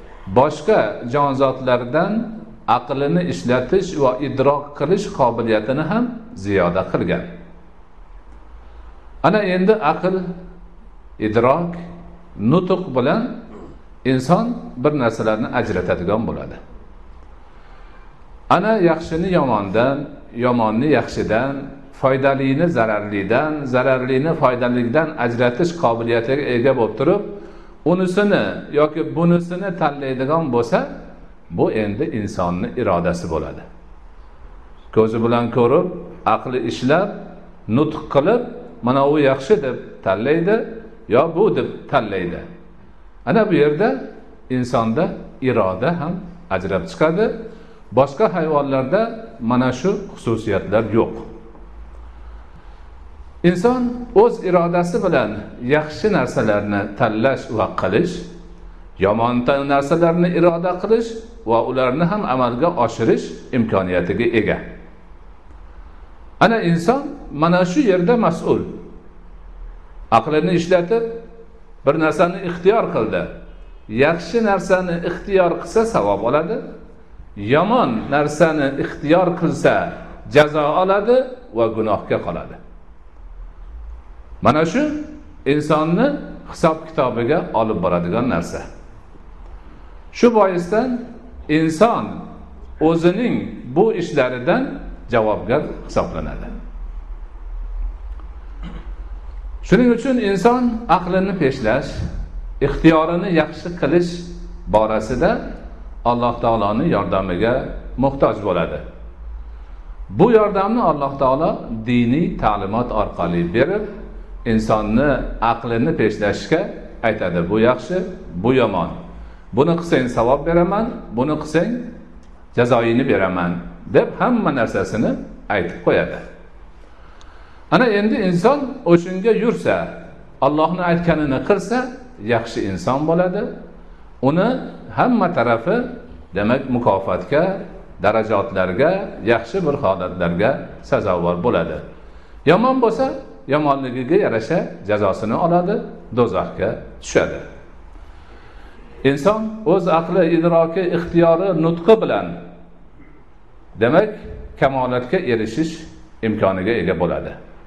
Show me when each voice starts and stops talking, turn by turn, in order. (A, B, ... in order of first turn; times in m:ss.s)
0:00.3-0:07.3 A
0:09.2-0:10.3 A
0:11.2-0:11.8 A
0:12.4-0:13.4 A
0:14.0-0:16.6 A
0:18.5-0:30.9 A
0:31.5-0:33.7 A
0:34.9-0:42.5 A
0:43.3-0:47.4 A
0:47.9-0:51.3 A
0:53.4-0:58.3 A
0:59.0-1:04.6 A
1:06.4-1:08.8 A
1:10.1-1:11.2 A
1:11.8-1:13.3 A
1:13.9-1:16.6 A
1:17.4-1:22.6 A
1:24.4-1:28.6 A
1:30.1-1:32.2 A
1:32.8-1:36.5 A
1:39.6-1:42.0 A
1:42.6-1:45.4 A
1:46.0-1:48.8 A
1:50.1-1:53.9 A
1:54.4-1:59.0 A
1:59.5-2:01.9 A
2:02.6-2:06.2 A
2:07.7-2:13.5 A
2:14.2-2:21.8 A
2:22.4-2:27.4 A
2:29.0-2:32.4 A
2:33.8-2:37.4 A